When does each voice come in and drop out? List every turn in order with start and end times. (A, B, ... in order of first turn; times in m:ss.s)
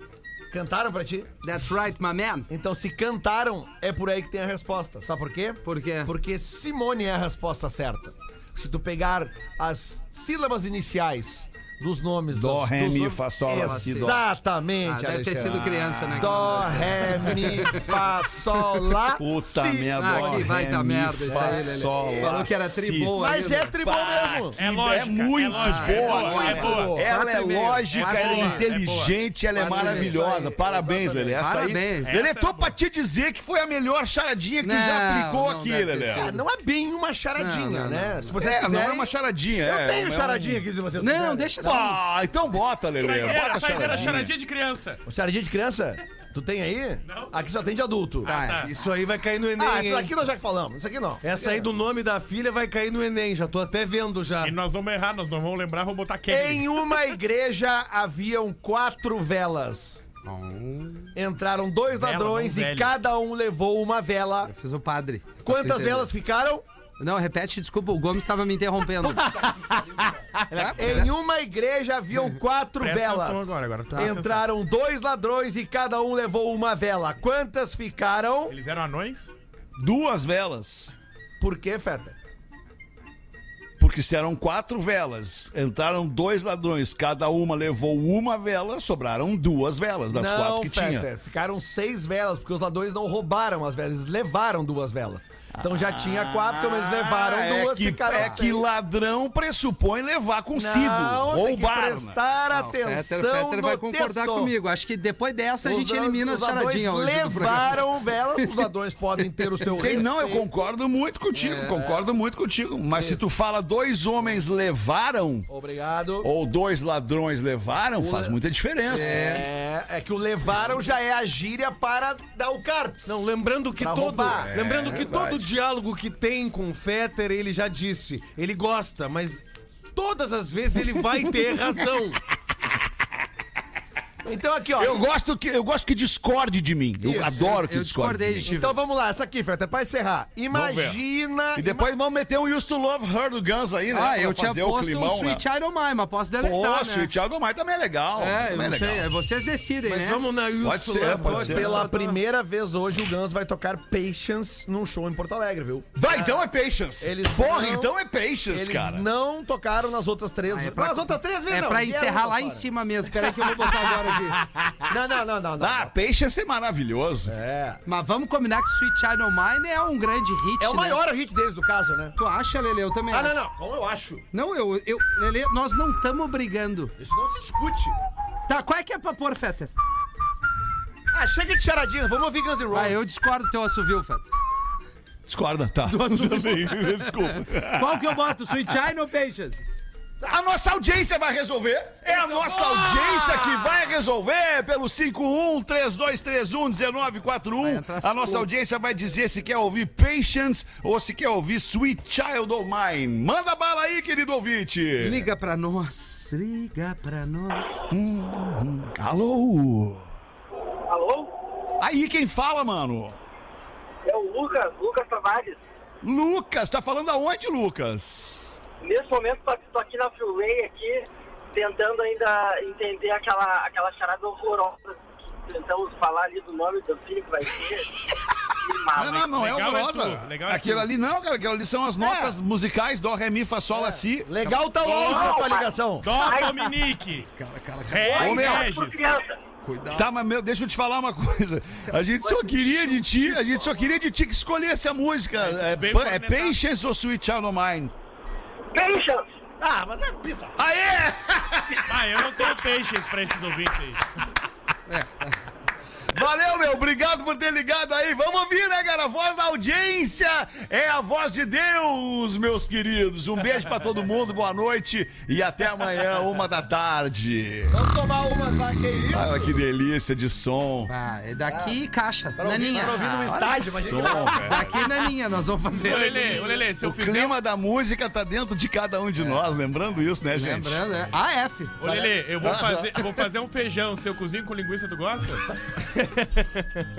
0:00.5-0:01.3 A
0:01.4-0:02.5 B
0:02.5-0:20.6 A
0:05.6-0:06.1 B
0:12.3-0:14.2 C
0:13.6-0:14.2 B
0:14.8-0:17.8 B
0:15.4-0:17.8 C
0:19.1-0:23.2 C
0:20.0-0:23.7 B
0:21.2-0:22.5 A
0:23.1-0:24.6 A
0:23.8-0:36.3 C
0:24.6-0:27.1 D
0:25.5-0:26.0 B
0:25.9-0:27.1 A
0:27.0-0:28.7 B
0:27.9-0:29.2 D
0:29.5-0:30.2 B
0:29.6-0:31.4 A
0:31.4-0:32.1 B
0:32.0-0:32.8 D
0:34.6-0:36.4 B
0:36.2-0:39.1 A
0:37.4-0:38.3 B
0:38.3-0:40.6 C
0:39.6-0:41.7 A
0:41.0-0:42.0 B
0:41.6-0:44.3 C
0:43.0-0:45.0 D
0:43.9-0:44.2 A
0:45.0-0:48.3 A
0:47.1-0:47.5 D
0:48.2-0:48.7 D
0:48.2-0:48.7 B
0:48.6-0:50.1 E
0:49.6-0:51.6 A
0:51.2-0:54.5 E
0:54.4-0:57.1 D
0:56.3-1:00.0 A
1:00.2-1:01.1 B
1:01.1-1:04.5 A
1:01.9-1:02.9 D
1:04.4-1:06.1 B
1:05.4-1:06.6 A
1:07.0-1:09.3 B
1:09.0-1:18.5 A
1:10.5-1:11.1 B
1:12.8-1:14.5 D
1:18.5-1:19.3 D
1:19.8-1:20.9 C
1:21.4-1:22.2 A
1:23.8-1:31.1 C
1:30.1-1:38.6 A
1:35.5-1:42.2 C
1:40.5-1:44.5 A
1:42.5-1:47.9 B
1:45.6-1:50.5 A
1:49.5-1:50.0 B
1:49.7-1:55.5 C
1:51.3-1:52.0 B
1:52.9-1:53.2 A
1:55.5-1:56.3 A
1:56.2-1:59.2 C
1:58.0-1:58.4 A
1:58.9-1:59.4 B
1:58.9-2:04.5 A
2:03.1-2:09.4 E
2:04.4-2:05.5 C
2:09.9-2:12.2 E
2:14.2-2:15.0 A
2:14.8-2:18.5 C
2:17.0-2:17.4 A
2:17.2-2:18.8 B
2:18.4-2:21.9 A
2:20.5-2:21.0 C
2:21.5-2:25.4 C
2:23.9-2:27.1 B
2:26.4-2:29.1 C
2:28.2-2:30.2 B
2:29.8-2:31.8 E
2:30.6-2:31.9 C
2:31.2-2:32.2 B
2:31.3-2:36.4 A
2:36.0-2:39.1 C
2:37.0-2:37.9 A
2:38.5-2:42.7 A
2:40.5-2:44.4 B
2:43.2-2:43.8 A
2:44.8-2:45.9 A
2:45.6-2:47.3 C
2:47.2-2:47.8 A
2:47.8-2:51.0 B
2:50.6-2:52.2 A
2:52.2-2:53.3 B
2:53.1-2:54.2 A
2:54.3-2:56.9 B
2:57.0-2:58.0 A
2:58.5-2:59.7 B
3:01.1-3:03.0 A
3:02.7-3:04.2 B
3:05.2-3:08.7 C
3:05.8-3:09.6 B
3:10.2-3:25.3 C
3:12.1-3:13.9 A
3:17.6-3:18.5 B
3:25.0-3:27.9 B
3:27.9-3:30.1 C
3:30.9-3:31.3 F
3:31.8-3:33.2 C
3:34.0-3:35.6 F
3:36.0-3:38.6 C
3:38.8-3:48.0 F
3:48.6-3:49.2 F
3:48.9-3:54.3 C
3:49.1-3:50.9 D
3:52.0-3:52.3 A
3:53.7-3:56.6 A
3:54.4-3:54.7 B
3:54.8-3:56.6 F
3:56.0-3:57.3 D
3:57.4-3:58.6 B
3:57.9-3:59.1 D
3:58.1-3:59.3 F
3:58.1-3:58.8 C
3:59.6-4:00.1 B
3:59.9-4:07.9 C
4:02.6-4:03.8 A
4:05.5-4:06.6 D
4:08.7-4:09.3 F
4:09.6-4:10.6 A
4:10.6-4:12.0 C
4:11.9-4:14.1 D
4:14.9-4:15.3 B
4:16.1-4:27.8 C
4:27.7-4:29.5 A
4:29.1-4:30.9 C
4:30.9-4:36.5 B
4:31.5-4:31.8 A
4:32.4-4:34.8 A
4:32.7-4:34.8 C
4:35.8-4:37.3 D
4:36.7-4:40.9 C
4:40.3-4:41.8 B
4:41.8-4:45.5 D
4:42.4-4:43.0 C